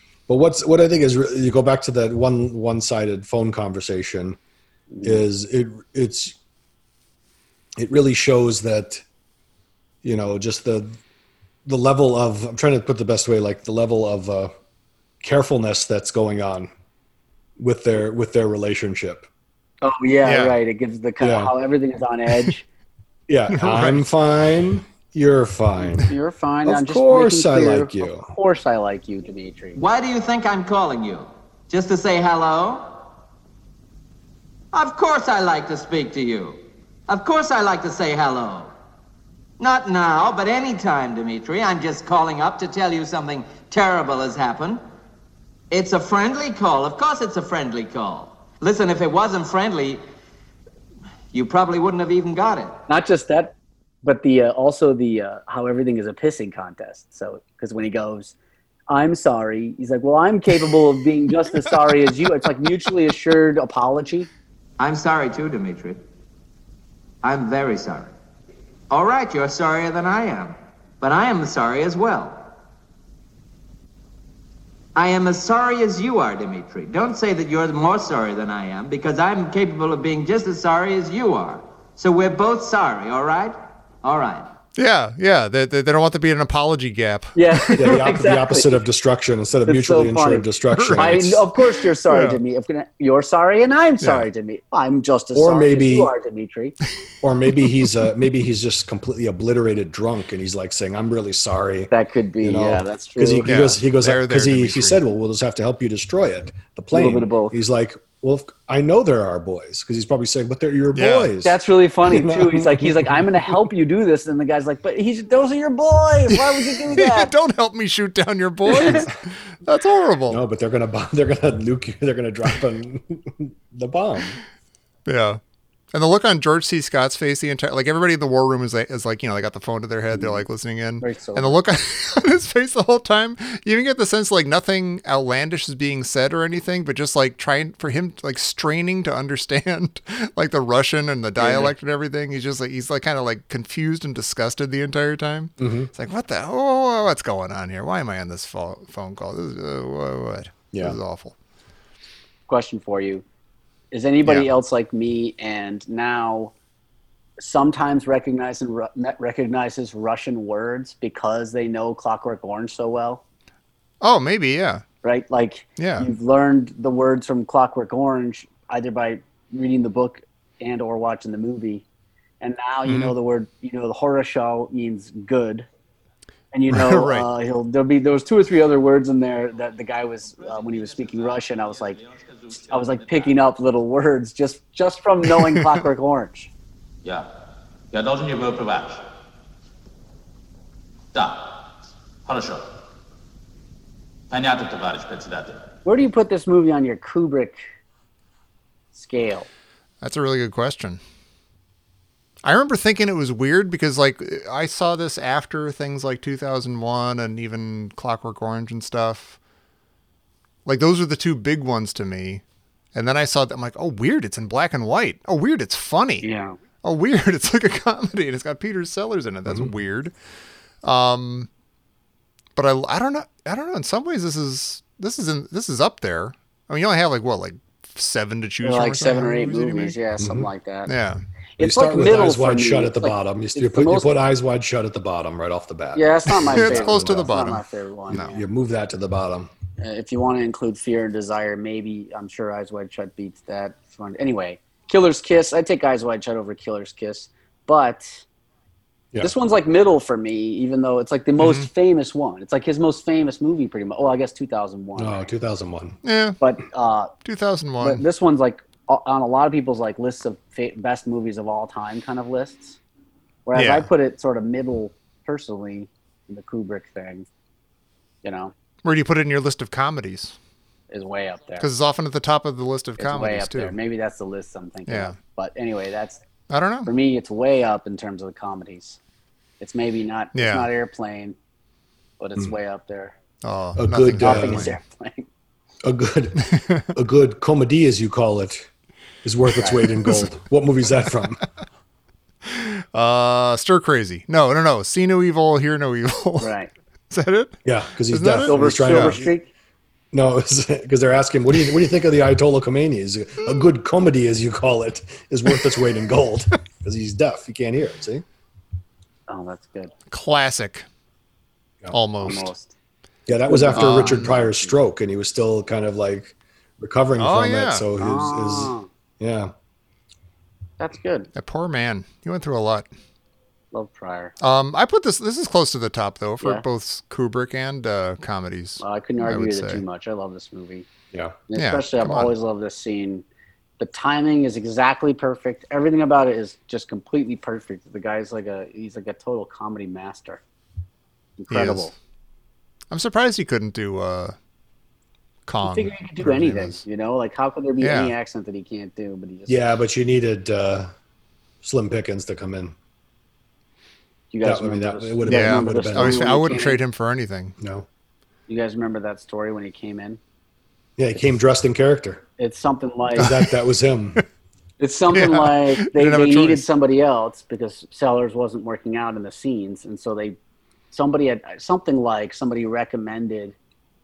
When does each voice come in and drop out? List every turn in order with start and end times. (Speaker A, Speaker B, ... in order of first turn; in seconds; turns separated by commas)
Speaker A: 0.3-4.4, Speaker B: 4.9-5.2, Speaker A: 5.0-6.3, Speaker A: 7.8-9.0, Speaker A: 10.0-11.0, Speaker A: 11.7-14.5, Speaker A: 15.2-16.7, Speaker A: 17.6-19.3, Speaker B: 19.8-22.6, Speaker C: 20.2-20.6, Speaker A: 21.2-21.5, Speaker A: 23.3-26.1, Speaker C: 23.5-24.1, Speaker B: 26.0-29.8, Speaker A: 26.6-28.3, Speaker D: 29.8-33.0, Speaker D: 34.7-38.7, Speaker D: 39.6-44.8, Speaker D: 45.7-50.0, Speaker D: 51.3-52.8, Speaker B: 52.9-58.3, Speaker B: 58.9-64.3, Speaker D: 64.8-66.0, Speaker D: 67.2-68.1, Speaker D: 68.9-72.5, Speaker D: 74.9-84.5, Speaker C: 84.8-88.0, Speaker B: 87.3-88.8, Speaker A: 87.7-91.4, Speaker B: 89.7-96.8, Speaker C: 90.7-91.4, Speaker C: 92.0-92.4, Speaker C: 94.0-94.3, Speaker A: 95.3-96.1, Speaker A: 97.2-113.2, Speaker B: 101.9-103.5, Speaker C: 103.5-105.0, Speaker B: 106.9-107.5, Speaker C: 110.9-111.3, Speaker B: 111.4-117.3, Speaker C: 116.3-120.4, Speaker B: 118.7-119.0, Speaker A: 120.3-124.4, Speaker C: 125.0-125.4, Speaker C: 125.9-151.3, Speaker B: 131.0-131.6, Speaker A: 141.4-141.7, Speaker A: 145.6-145.9, Speaker B: 152.5-153.2, Speaker B: 153.9-156.5, Speaker B: 157.4-163.2, Speaker C: 164.0-164.8, Speaker B: 165.0-171.8, Speaker C: 165.8-166.1, Speaker B: 172.4-175.7, Speaker C: 172.8-173.1, Speaker B: 176.5-182.0, Speaker C: 176.7-177.3, Speaker E: 180.4-183.3, Speaker B: 182.7-186.5, Speaker E: 187.9-189.0, Speaker E: 191.1-191.7, Speaker E: 192.2-192.7, Speaker E: 194.3-195.7, Speaker B: 195.8-197.6, Speaker B: 198.9-199.5, Speaker C: 200.0-201.0, Speaker C: 202.4-209.4, Speaker C: 210.7-212.4, Speaker C: 212.9-216.2, Speaker B: 216.2-216.6, Speaker C: 216.8-220.1, Speaker C: 220.8-221.5, Speaker C: 222.6-229.9, Speaker B: 228.6-230.9, Speaker A: 230.2-230.5, Speaker C: 230.9-231.2, Speaker B: 231.6-234.2, Speaker A: 231.6-237.4, Speaker B: 235.9-238.4, Speaker C: 236.5-238.3, Speaker A: 238.1-239.5, Speaker B: 239.8-248.2, Speaker B: 249.2-255.3, Speaker C: 251.4-251.7, Speaker A: 255.0-256.0, Speaker C: 256.0-256.4, Speaker B: 256.4-257.1, Speaker C: 257.2-258.0, Speaker B: 257.8-262.8, Speaker B: 263.4-267.2, Speaker C: 263.5-263.9, Speaker B: 268.2-268.5, Speaker C: 268.8-270.4, Speaker B: 270.9-271.7, Speaker C: 271.6-273.8, Speaker B: 273.0-276.2, Speaker C: 274.9-275.1, Speaker C: 276.5-276.9, Speaker B: 276.9-279.0, Speaker B: 279.6-281.4, Speaker C: 280.3-280.7, Speaker B: 282.2-283.1, Speaker C: 283.4-284.8, Speaker A: 283.8-284.7, Speaker B: 284.2-285.3, Speaker A: 285.8-288.7, Speaker C: 286.5-286.9, Speaker A: 289.2-291.4, Speaker C: 292.5-296.5, Speaker B: 296.4-296.7, Speaker C: 297.1-299.2, Speaker A: 297.6-299.3, Speaker B: 298.4-299.5, Speaker A: 300.1-308.2, Speaker B: 309.3-309.9, Speaker C: 310.1-310.9, Speaker C: 311.9-312.5, Speaker B: 312.2-312.7, Speaker A: 313.3-319.5, Speaker B: 313.4-314.7, Speaker C: 313.7-314.3, Speaker C: 317.2-317.8, Speaker B: 318.0-318.9, Speaker B: 320.8-321.3, Speaker C: 321.4-322.9, Speaker B: 323.7-324.3, Speaker C: 324.4-329.8, Speaker B: 328.8-330.9, Speaker B: 331.5-333.2, Speaker C: 331.6-332.3, Speaker B: 333.8-340.4, Speaker B: 341.4-341.9, Speaker C: 341.5-341.9, Speaker C: 342.9-344.3, Speaker C: 345.5-346.8, Speaker B: 345.6-349.7, Speaker C: 347.8-348.1, Speaker A: 349.5-350.9, Speaker A: 351.6-352.7, Speaker B: 354.3-356.8, Speaker A: 354.4-356.4, Speaker C: 355.3-357.5, Speaker A: 357.6-357.9, Speaker B: 358.5-360.2, Speaker A: 361.0-362.2, Speaker B: 362.4-363.3, Speaker A: 363.1-364.2, Speaker B: 364.8-370.4, Speaker C: 365.1-366.6, Speaker B: 370.9-373.5